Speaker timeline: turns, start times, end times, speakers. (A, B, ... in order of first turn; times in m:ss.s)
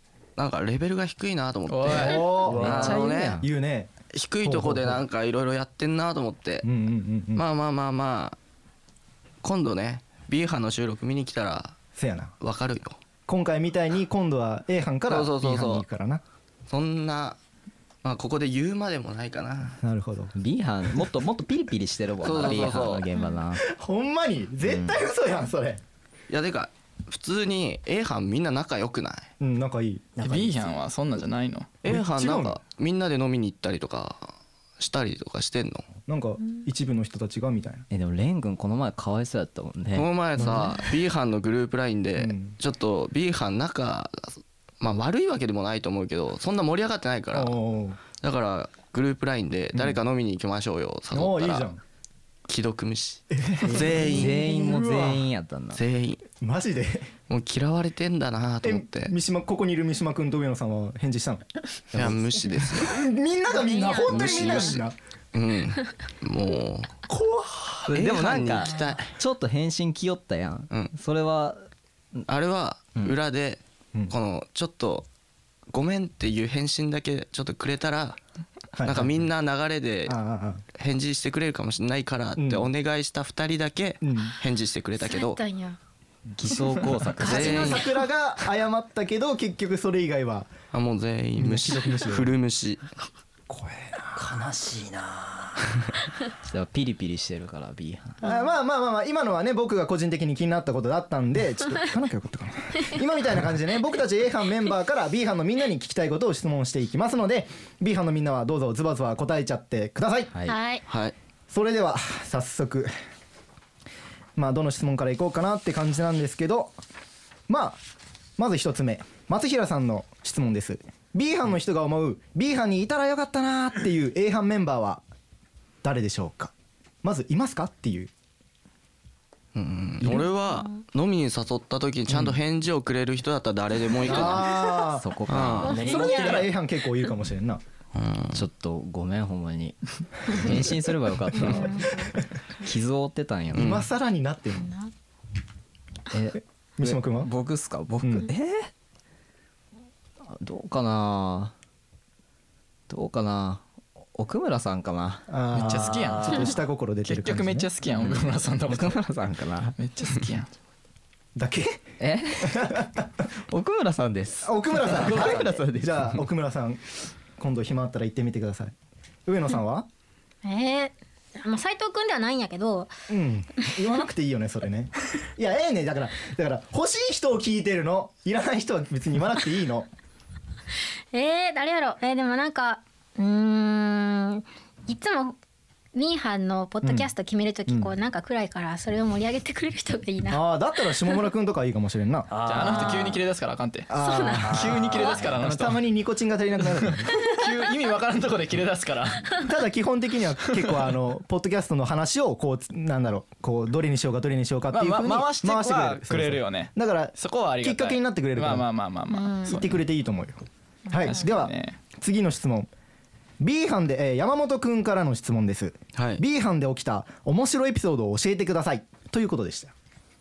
0:00.4-0:03.4 A
0:01.7-0:02.3 B
0:01.9-0:05.1 C
0:02.5-0:03.5 D
0:02.5-0:02.9 E
0:04.1-0:06.7 A
0:06.6-0:07.4 C
0:07.4-0:08.4 A
0:09.4-0:11.8 A
0:12.0-0:12.3 C
0:12.4-0:13.0 A
0:13.3-0:16.2 C
0:15.1-0:15.8 A
0:16.7-0:17.4 A
0:18.0-0:19.8 A
0:19.8-0:20.3 C
0:20.4-0:23.6 D
0:22.2-0:23.1 A
0:23.1-0:23.4 F
0:23.6-0:25.8 C
0:24.7-0:24.9 D
0:26.3-0:29.3 A
0:29.4-0:30.1 C
0:30.2-0:30.7 E
0:30.2-0:31.8 B
0:31.8-0:32.6 C
0:31.8-0:35.9 A
0:36.1-0:37.8 C
0:37.9-0:40.1 D
0:39.9-0:47.6 A
0:40.4-0:40.9 C
0:42.2-0:42.6 C
0:47.3-0:48.0 C
0:48.2-0:51.7 A
0:51.1-0:51.8 C
0:52.5-0:54.4 A
0:53.3-0:55.2 C
0:53.9-0:55.8 D
0:55.8-0:56.2 A
0:56.4-0:57.1 C
0:57.3-0:59.1 A
0:58.6-1:02.2 C
1:01.9-1:03.0 A
1:02.8-1:04.9 C
1:03.5-1:04.8 F
1:04.1-1:04.8 A
1:05.3-1:06.9 A
1:07.1-1:07.9 C
1:07.9-1:11.7 D
1:07.9-1:09.1 A
1:12.3-1:15.1 A
1:15.7-1:18.2 A
1:18.8-1:19.1 C
1:18.8-1:20.2 A
1:20.1-1:20.6 C
1:20.8-1:25.4 A
1:22.4-1:22.7 C
1:24.0-1:24.3 C
1:25.0-1:25.8 F
1:26.4-1:27.7 D
1:27.2-1:28.0 F
1:27.2-1:27.9 A
1:27.3-1:30.5 C
1:30.7-1:32.8 A
1:31.4-1:32.3 C
1:33.5-1:34.1 C
1:34.2-1:35.6 E
1:36.5-1:38.2 D
1:38.2-1:50.3 C
1:50.5-1:50.8 F
1:50.9-1:51.1 A
1:51.5-1:52.9 C
1:54.4-1:56.8 C
1:57.5-1:57.8 C
1:58.4-2:05.0 C
2:05.8-2:06.5 C
2:07.0-2:08.1 C
2:09.5-2:14.5 A
2:14.0-2:15.1 C
2:14.8-2:15.8 D
2:15.3-2:15.8 A
2:15.7-2:16.5 E
2:15.8-2:17.6 C
2:15.8-2:16.4 F
2:18.0-2:18.4 A
2:18.3-2:21.9 D
2:21.3-2:22.0 C
2:21.8-2:22.1 F
2:22.6-2:23.8 D
2:23.5-2:23.8 A
2:23.6-2:24.7 C
2:26.1-2:28.7 D
2:26.8-2:27.3 C
2:28.0-2:28.3 C
2:30.3-2:31.5 D
2:32.9-2:33.6 D
2:34.2-2:35.3 D
2:35.3-2:37.7 C
2:35.5-2:39.0 B
2:35.6-2:36.5 E
2:38.0-2:39.8 D
2:39.8-2:40.5 B
2:41.4-2:41.8 C
2:42.0-2:42.8 D
2:42.4-2:43.1 C
2:43.5-2:46.2 D
2:44.4-2:46.8 C
2:47.4-2:48.7 C
2:49.2-2:49.9 C
2:50.4-2:52.9 F
2:53.1-2:59.9 C
3:01.1-3:05.4 F
3:05.9-3:10.4 F
3:06.8-3:07.1 C
3:07.7-3:07.9 C
3:10.3-3:12.3 C
3:12.3-3:13.2 E
3:12.4-3:15.8 B
3:12.7-3:13.1 F
3:13.9-3:17.2 C
3:13.9-3:15.2 F
3:14.4-3:15.2 E
3:16.8-3:19.4 B
3:19.4-3:28.7 C
3:24.7-3:29.8 B
3:29.1-3:29.5 F
3:29.4-3:32.7 C
3:30.9-3:31.3 F
3:31.0-3:31.8 B
3:33.4-3:39.7 C
3:36.0-3:36.2 A